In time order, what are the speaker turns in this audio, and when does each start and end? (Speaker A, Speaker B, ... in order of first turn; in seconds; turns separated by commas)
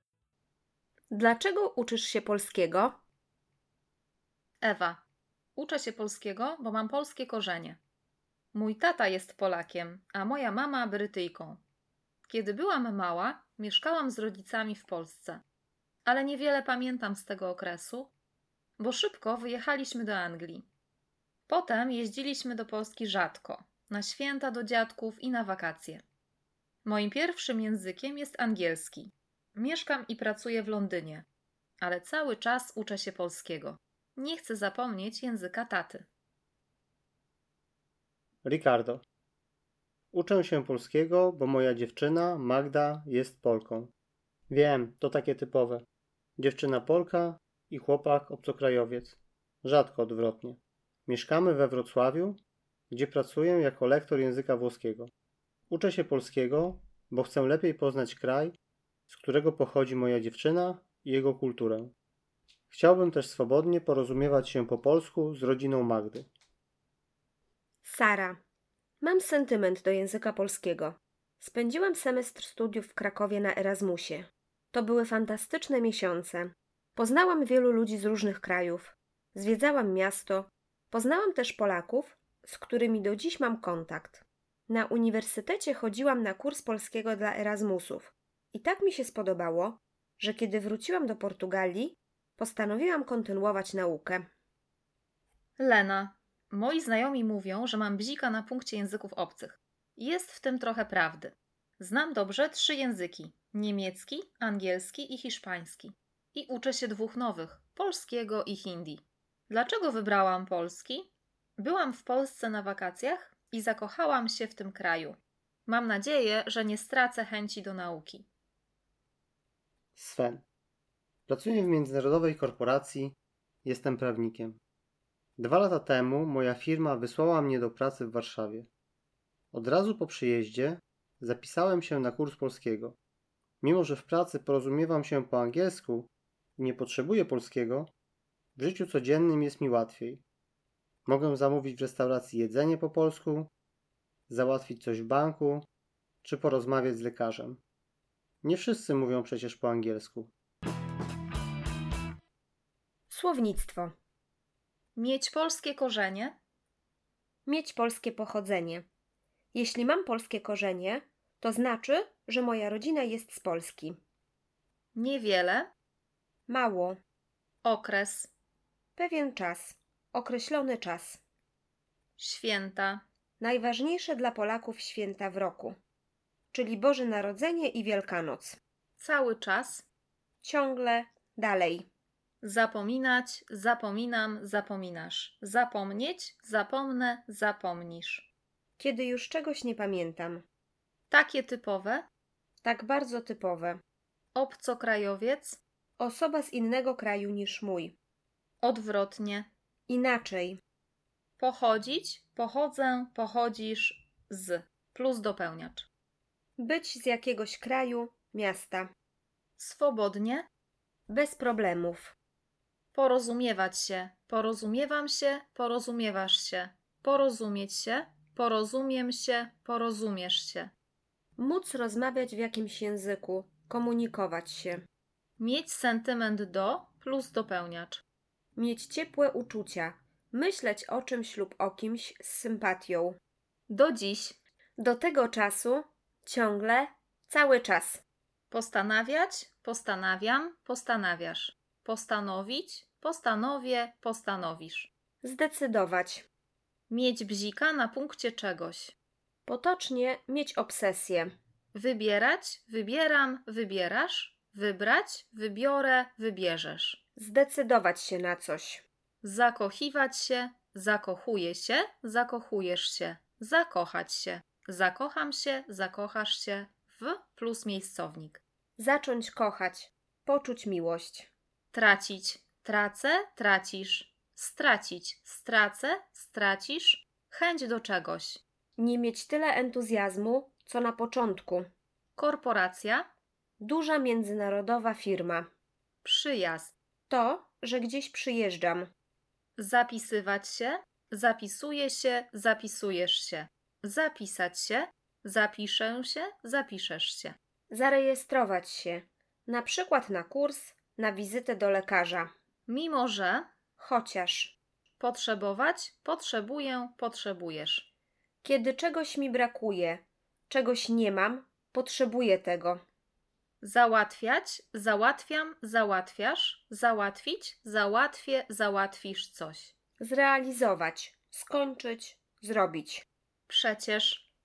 Speaker A: 1.1-2.9, Speaker B: 4.6-5.0, Speaker B: 5.5-7.8, Speaker B: 8.5-11.6, Speaker B: 12.2-15.4, Speaker B: 16.0-18.1, Speaker B: 18.8-20.6, Speaker B: 21.5-26.0, Speaker B: 26.8-31.2, Speaker B: 31.8-36.0, Speaker C: 38.4-39.0, Speaker C: 40.1-43.9, Speaker C: 44.5-45.8, Speaker C: 46.4-52.4, Speaker C: 52.9-55.1, Speaker C: 55.7-58.5, Speaker C: 59.1-61.9, Speaker C: 62.7-66.3, Speaker A: 67.8-68.4, Speaker A: 69.0-94.2, Speaker B: 95.6-118.3, Speaker C: 120.0-120.4, Speaker C: 121.3-124.6, Speaker C: 125.4-128.7, Speaker C: 129.5-133.0, Speaker C: 133.6-137.9, Speaker C: 138.6-140.2, Speaker C: 141.1-143.5, Speaker C: 144.3-145.7, Speaker C: 146.2-147.6, Speaker C: 148.4-150.3, Speaker A: 153.1-153.9, Speaker B: 154.9-156.3, Speaker A: 157.4-158.8, Speaker A: 159.5-164.0, Speaker B: 164.9-165.7, Speaker A: 166.5-167.0, Speaker B: 167.6-168.3, Speaker A: 169.0-171.2, Speaker B: 172.2-173.0, Speaker A: 173.4-175.8, Speaker A: 176.5-178.6, Speaker B: 179.0-179.8, Speaker A: 180.4-181.8, Speaker B: 182.4-188.3, Speaker A: 188.8-190.4, Speaker B: 191.1-192.1, Speaker A: 192.6-193.8, Speaker B: 194.3-195.6, Speaker A: 196.0-197.9, Speaker B: 198.6-199.5, Speaker A: 199.9-200.6, Speaker B: 201.4-205.9, Speaker A: 206.6-208.9, Speaker B: 209.6-210.5, Speaker A: 211.1-212.1, Speaker B: 212.9-220.7, Speaker A: 221.4-224.8, Speaker B: 225.4-228.0, Speaker A: 228.6-233.2, Speaker B: 233.7-234.4, Speaker A: 234.8-238.0, Speaker B: 238.5-244.9, Speaker A: 245.2-246.2, Speaker B: 246.9-248.9, Speaker A: 249.4-251.3, Speaker B: 251.7-257.0, Speaker A: 257.2-258.8, Speaker B: 259.2-268.4, Speaker A: 268.8-271.3, Speaker B: 271.7-278.4, Speaker A: 278.8-281.7, Speaker B: 282.1-283.1, Speaker A: 283.6-285.5, Speaker B: 286.0-286.7, Speaker A: 287.1-288.9, Speaker B: 289.6-297.3, Speaker A: 297.7-302.3, Speaker B: 302.7-303.5, Speaker A: 303.8-304.6, Speaker B: 305.0-307.9, Speaker A: 308.4-312.8, Speaker B: 313.6-319.7, Speaker A: 320.0-323.0, Speaker B: 323.5-324.2